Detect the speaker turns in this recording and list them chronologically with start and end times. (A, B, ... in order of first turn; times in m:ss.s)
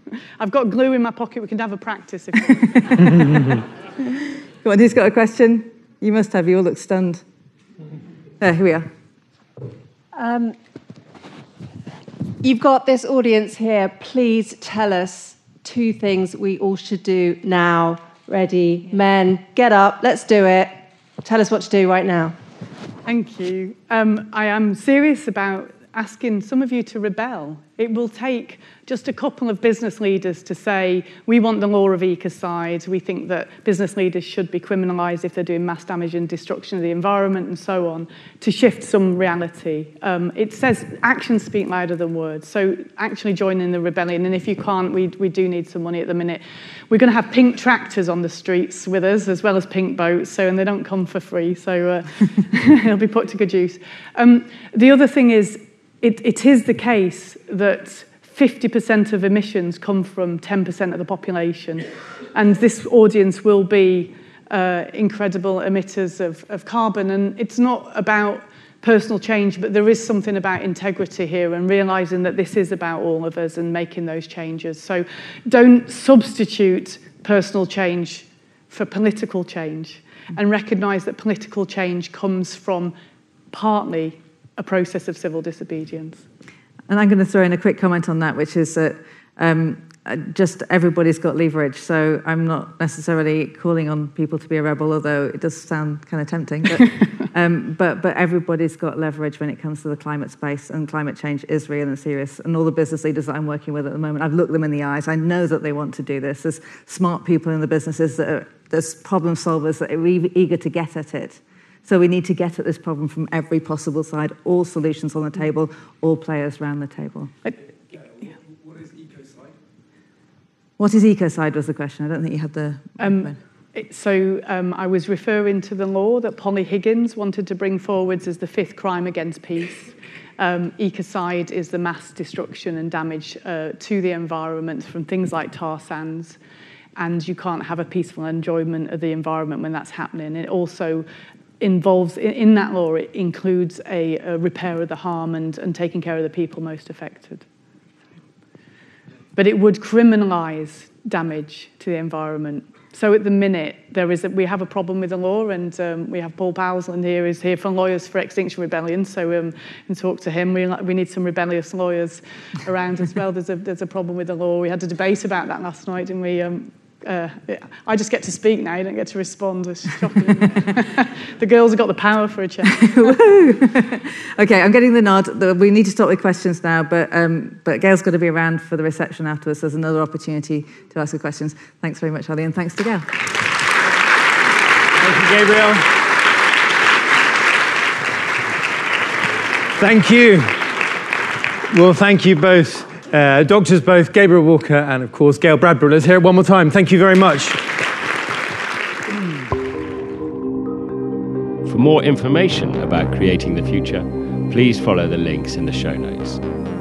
0:00.4-0:03.3 A
0:03.1-0:03.5 B
0:04.1-0:07.2 B
0:08.4-0:08.9 B
0:10.1-0:10.6 C
0:12.4-0:22.4 C
0:23.1-1:23.0 A
1:23.5-1:26.2 A
1:26.9-1:57.3 B
2:00.8-2:03.4 B
2:03.0-2:16.4 A
2:17.0-2:21.1 A
2:21.6-2:27.4 A
2:29.4-2:53.2 A
2:52.8-3:03.2 B
3:05.0-3:06.0 D
3:09.8-3:10.8 D
3:11.7-3:17.7 D
3:21.6-3:26.4 E